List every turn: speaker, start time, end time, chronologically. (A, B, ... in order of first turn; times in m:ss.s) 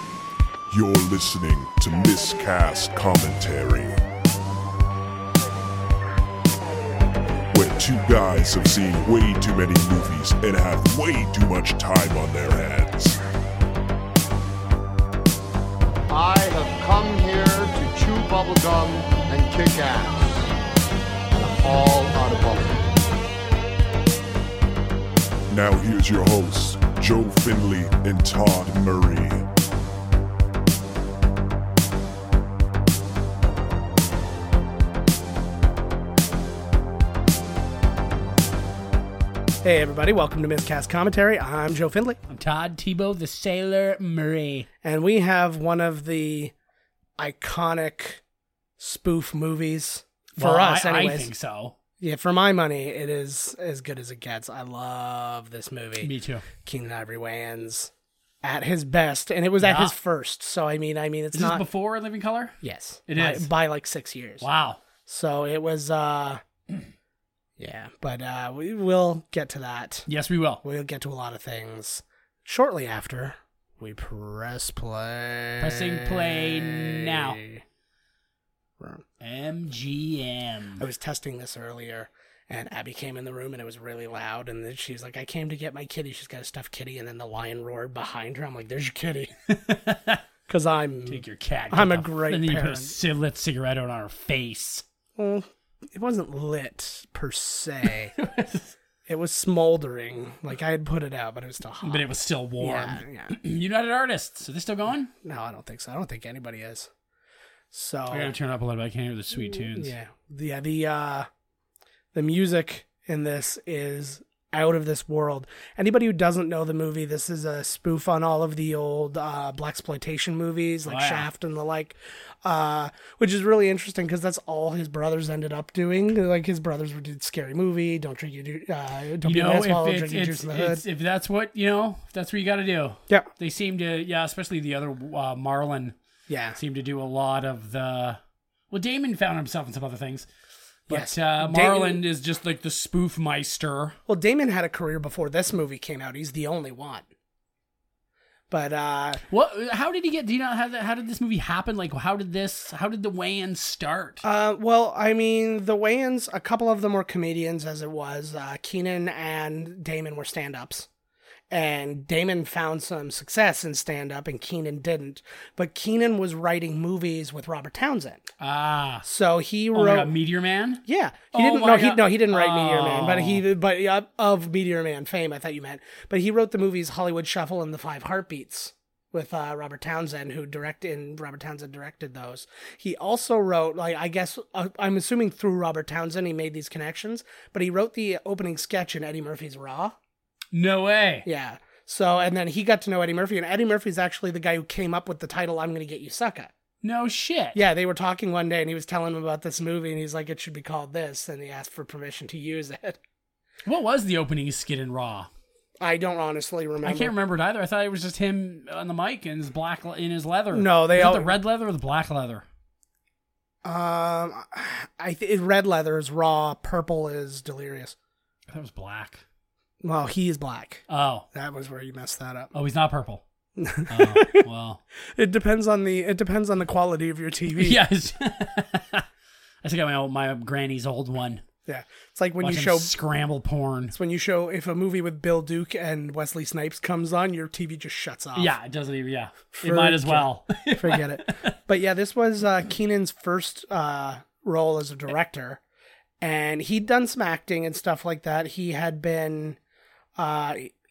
0:00.7-0:04.0 A
0:06.7-0:07.5 B
0:07.5-0:13.2 A
0:16.1-0:20.5 C
0:21.4-0:22.9 C
0:25.5-0:29.5 A
0:39.6-0:42.2 B
0:42.3-0:44.7 D
0:44.8-0:46.5 B
0:47.2-0:48.2 B
0:48.8-0:51.3 B
0:50.4-0:51.8 D
0:52.0-0:56.1 B
0:56.0-0:56.4 D
0:56.6-0:57.9 B
0:58.4-1:01.6 B
0:59.6-0:59.9 D
1:01.3-1:03.5 D
1:02.6-1:04.4 B
1:04.4-1:04.8 D
1:05.1-1:06.4 B
1:07.6-1:10.1 B
1:10.1-1:10.6 D
1:10.6-1:17.6 B
1:15.6-1:17.4 D
1:18.8-1:19.0 B
1:19.2-1:20.8 D
1:20.8-1:29.3 B
1:29.5-1:30.2 D
1:30.5-1:33.0 B
1:31.1-1:34.8 D
1:35.2-1:38.1 B
1:38.2-1:38.8 D
1:39.1-1:42.1 B
1:41.8-1:45.1 D
1:42.6-1:43.4 B
1:45.2-1:46.9 B
1:47.7-1:48.3 B
1:48.1-1:49.9 D
1:49.5-1:51.3 B
1:52.1-2:10.8 B
2:00.9-2:01.3 D
2:09.2-2:16.0 D
2:16.3-2:16.6 B
2:16.6-2:18.2 D
2:18.7-2:20.3 D
2:20.9-2:22.0 B
2:20.9-2:24.0 D
2:24.1-2:27.1 B
2:28.5-2:29.2 B
2:29.3-2:34.2 D
2:34.2-2:40.9 B
2:41.5-2:48.2 B
2:48.4-2:49.0 D
2:49.0-2:50.1 B
2:49.7-2:53.4 D
2:50.8-3:10.0 B
3:10.5-3:11.3 D
3:11.2-3:16.5 B
3:16.8-3:17.6 D
3:17.5-3:23.0 B
3:23.6-3:25.3 D
3:25.8-3:27.2 B
3:26.8-3:32.4 D
3:30.5-3:31.4 B
3:33.6-3:38.0 B
3:38.5-3:39.2 D
3:39.8-3:42.5 B
3:40.9-3:41.3 D
3:42.5-3:43.2 D
3:43.6-3:44.4 B
3:43.9-3:44.8 D
3:45.1-3:47.8 B
3:47.6-3:49.0 D
3:49.6-3:51.4 D
3:51.7-3:53.0 B
3:52.4-3:53.9 D
3:53.9-3:58.6 B
3:58.4-4:01.6 D
3:59.5-4:05.6 B
4:06.2-4:09.6 B
4:10.2-4:10.7 B